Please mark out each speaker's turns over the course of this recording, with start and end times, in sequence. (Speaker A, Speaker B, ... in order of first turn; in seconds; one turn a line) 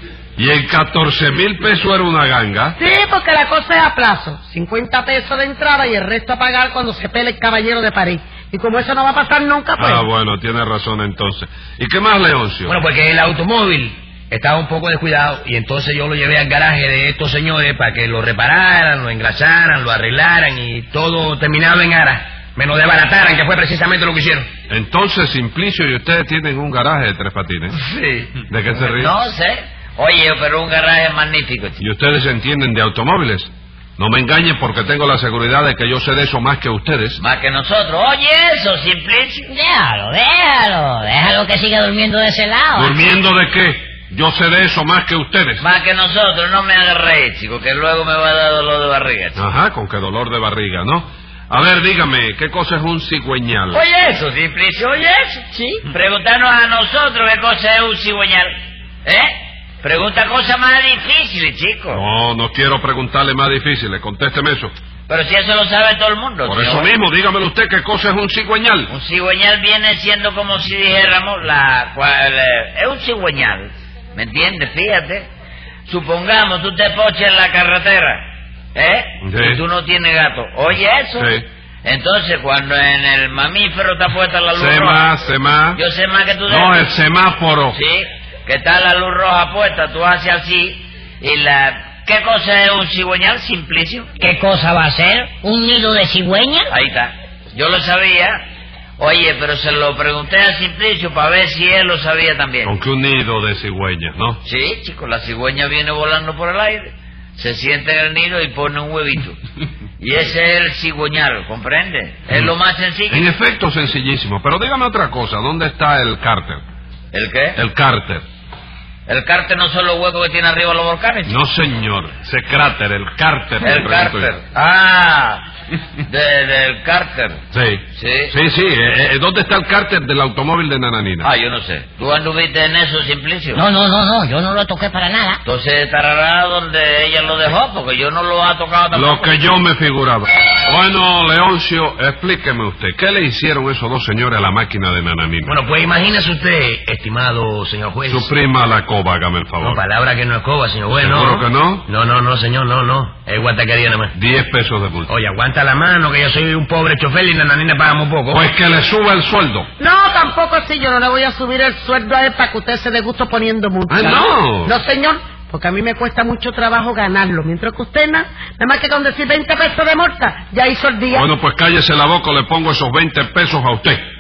Speaker A: 0.4-2.8
Speaker B: 2.8-10.1
Speaker A: 9.8-12.8
Speaker C: 12.7-24.5
Speaker A: 24.7-27.8
Speaker D: 27.7-31.8
Speaker A: 28.5-29.1
Speaker A: 31.8-37.2
Speaker D: 37.2-39.5
Speaker E: 39.5-43.0
Speaker A: 42.8-45.6
Speaker D: 45.6-49.4
Speaker A: 49.4-53.8
Speaker D: 53.7-58.5
Speaker D: 59.0-62.0
Speaker A: 61.9-64.7
Speaker D: 65.1-66.9
Speaker A: 66.5-68.9
Speaker D: 68.9-75.3
Speaker D: 75.9-78.2
Speaker D: 78.8-85.1
Speaker A: 79.2-79.6
Speaker A: 81.2-81.5
Speaker A: 84.5-85.8
Speaker D: 85.8-86.9
Speaker A: 86.5-87.8
Speaker D: 87.7-94.1
Speaker E: 94.2-96.7
Speaker D: 96.7-98.4
Speaker D: 99.0-102.8
Speaker A: 102.7-104.4
Speaker D: 104.4-109.4
Speaker D: 110.0-113.3
Speaker A: 113.1-116.6
Speaker D: 117.1-117.6
Speaker A: 117.5-118.2
Speaker D: 119.1-121.3
Speaker A: 121.3-124.4
Speaker D: 123.6-125.5
Speaker D: 126.1-127.4
Speaker A: 127.5-131.3
Speaker D: 127.9-128.3
Speaker D: 131.2-133.6
Speaker E: 133.6-135.4
Speaker D: 135.4-139.3
Speaker A: 138.9-145.6
Speaker C: 145.5-148.3
Speaker A: 148.1-149.8
Speaker C: 149.6-154.1
Speaker A: 150.9-151.9
Speaker A: 154.1-155.1
Speaker C: 155.1-158.4
Speaker A: 158.3-159.7
Speaker B: 159.8-171.3
Speaker A: 163.9-164.8
Speaker A: 171.1-174.0